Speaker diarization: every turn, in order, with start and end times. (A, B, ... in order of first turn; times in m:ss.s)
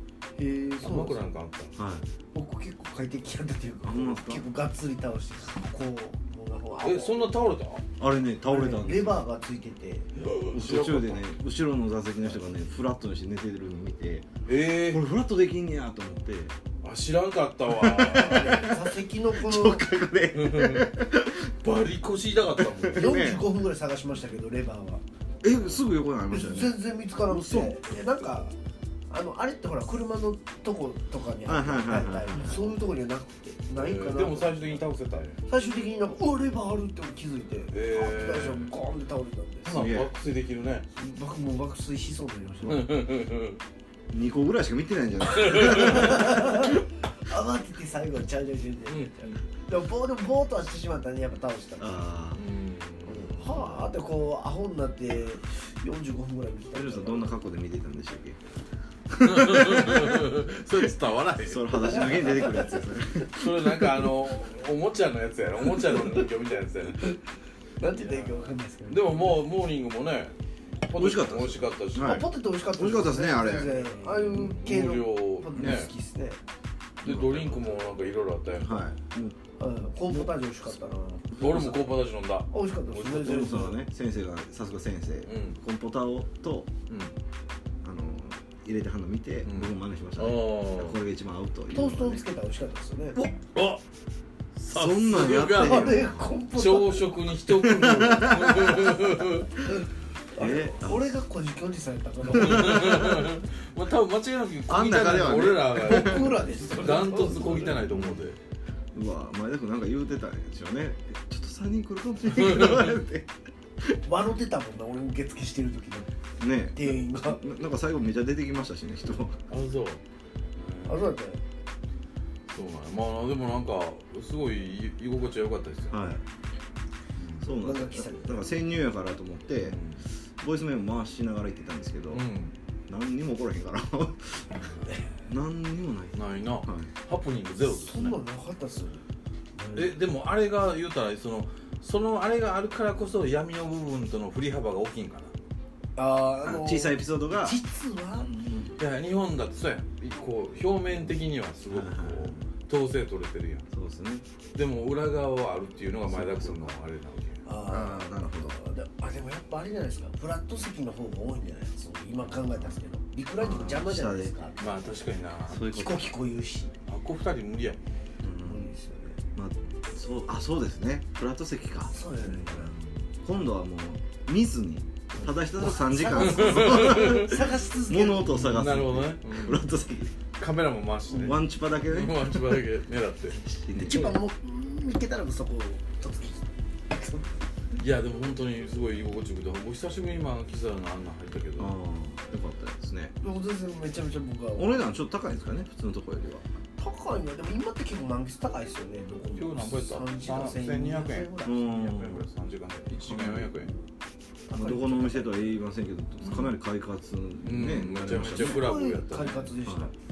0:00.4-0:01.2 A
0:00.8-0:01.7 B
0:01.8-0:02.1 C
0:02.3-0:07.2 A
0:03.8-0:04.4 C
0:06.8-0:07.8 B
0:08.0-0:09.2 C
0:08.5-0:10.1 A
0:10.1-0:11.2 B
0:10.5-0:16.5 C
0:14.5-0:15.0 B
0:16.8-0:18.7 B
0:17.7-0:21.9 C
0:18.2-0:19.9 A
0:20.3-0:23.1 B
0:22.6-0:23.4 C
0:22.9-0:25.0 A
0:25.4-0:27.8 C
0:26.3-0:28.6 A
0:29.1-0:34.8 A
0:31.4-0:32.8 C
0:33.7-0:35.4 B
0:35.5-0:39.8 A
0:37.7-0:38.7 B
0:39.6-0:40.9 B
0:39.7-0:40.1 C
0:40.9-0:42.9 A
0:42.6-0:43.6 B
0:44.1-0:46.7 C
0:45.3-0:46.1 B
0:45.6-0:52.0 A
0:48.9-0:49.3 B
0:51.8-0:52.4 C
0:52.4-0:53.9 B
0:53.0-0:57.3 A
0:56.7-0:58.4 C
0:59.1-1:00.2 C
0:59.2-1:02.4 B
1:01.4-1:04.1 C
1:01.9-1:02.8 A
1:03.3-1:07.2 B
1:07.8-1:09.4 A
1:07.8-1:12.2 B
1:10.9-1:13.8 C
1:12.0-1:16.4 A
1:13.8-1:15.9 B
1:15.6-1:15.8 C
1:17.0-1:18.8 B
1:17.0-1:17.8 C
1:18.6-1:19.4 C
1:19.6-1:21.3 A
1:21.3-1:22.0 C
1:21.4-1:23.2 B
1:22.5-1:23.8 A
1:22.9-1:26.7 C
1:25.3-1:25.6 B
1:26.9-1:27.1 B
1:27.8-1:32.2 C
1:29.4-1:31.0 B
1:31.7-1:33.2 A
1:33.4-1:33.8 B
1:34.5-1:39.6 B
1:34.7-1:36.3 C
1:35.4-1:37.2 A
1:37.5-1:39.0 C
1:39.6-1:43.0 A
1:40.3-1:41.1 C
1:42.3-1:43.3 C
1:42.3-1:48.4 B
1:44.7-1:46.3 C
1:45.7-1:47.9 A
1:47.9-1:48.2 C
1:48.9-1:53.3 C
1:52.3-1:53.0 B
1:54.0-1:56.1 A
1:56.4-1:59.5 C
1:56.7-1:57.4 A
1:59.5-2:00.0 B
2:00.6-2:01.1 B
2:00.8-2:01.4 A
2:02.5-2:06.0 B
2:05.9-2:06.2 C
2:07.2-2:07.4 B
2:07.4-2:09.8 C
2:07.6-2:08.6 A
2:09.6-2:10.0 B
2:10.4-2:12.3 C
2:12.1-2:12.5 B
2:12.9-2:14.5 C
2:14.6-2:14.9 B
2:15.1-2:16.9 C
2:16.1-2:18.2 B
2:17.6-2:19.0 A
2:19.5-2:19.9 A
2:19.7-2:25.3 B
2:26.0-2:28.5 A
2:26.4-2:27.6 C
2:28.2-2:28.7 C
2:28.8-2:33.7 B
2:31.7-2:32.4 C
2:33.7-2:34.2 C
2:34.5-2:37.4 B
2:36.0-2:36.8 C
2:37.4-2:44.9 A
2:37.7-2:38.6 C
2:43.4-2:44.3 C
2:44.6-2:45.6 B
2:45.5-2:46.1 C
2:45.6-2:46.7 A
2:46.9-2:47.8 B
2:48.2-2:48.7 C
2:48.4-2:49.2 A
2:49.3-2:52.6 C
2:51.9-2:52.8 A
2:52.5-2:53.0 B
2:53.2-3:00.1 C
2:55.6-2:58.4 A
2:56.1-2:57.4 B
2:58.2-2:59.6 B
3:00.4-3:04.2 B
3:01.1-3:02.6 C
3:03.3-3:04.2 C
3:03.8-3:07.3 A
3:07.8-3:11.7 B
3:11.6-3:13.1 C
3:13.2-3:14.9 A
3:14.6-3:16.4 C
3:16.8-3:21.5 A
3:19.3-3:23.7 B
3:21.4-3:22.2 C
3:23.1-3:23.5 C
3:24.5-3:25.5 A
3:24.5-3:28.7 C
3:26.2-3:26.6 B
3:27.4-3:29.5 B
3:28.3-3:29.9 A
3:29.6-3:29.9 C